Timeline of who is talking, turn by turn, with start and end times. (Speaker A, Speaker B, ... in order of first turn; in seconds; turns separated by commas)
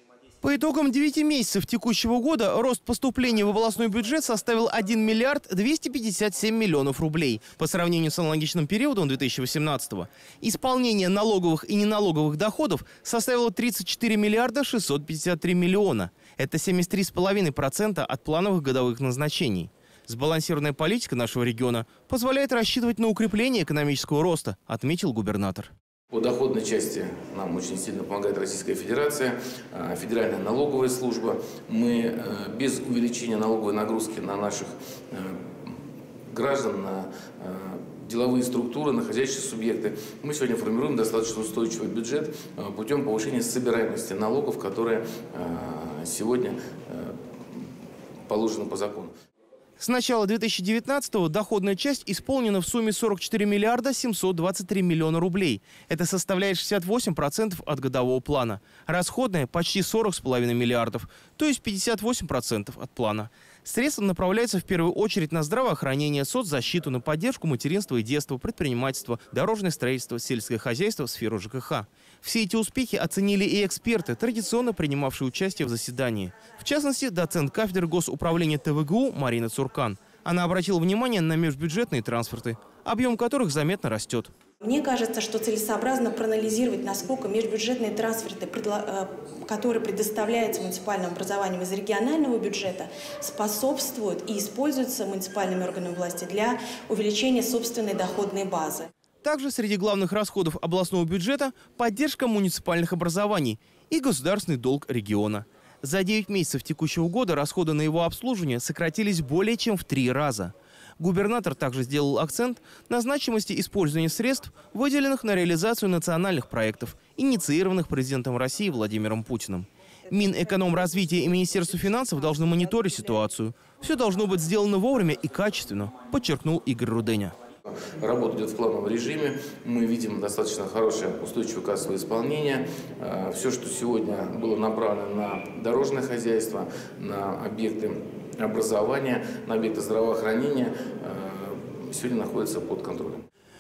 Speaker A: 0.4-25.7, Speaker B: 26.1-35.8, Speaker B: 36.3-47.7, Speaker B: 48.3-49.1, Speaker A: 49.8-84.3, Speaker C: 84.6-98.9, Speaker A: 99.2-127.3, Speaker B: 127.7-143.2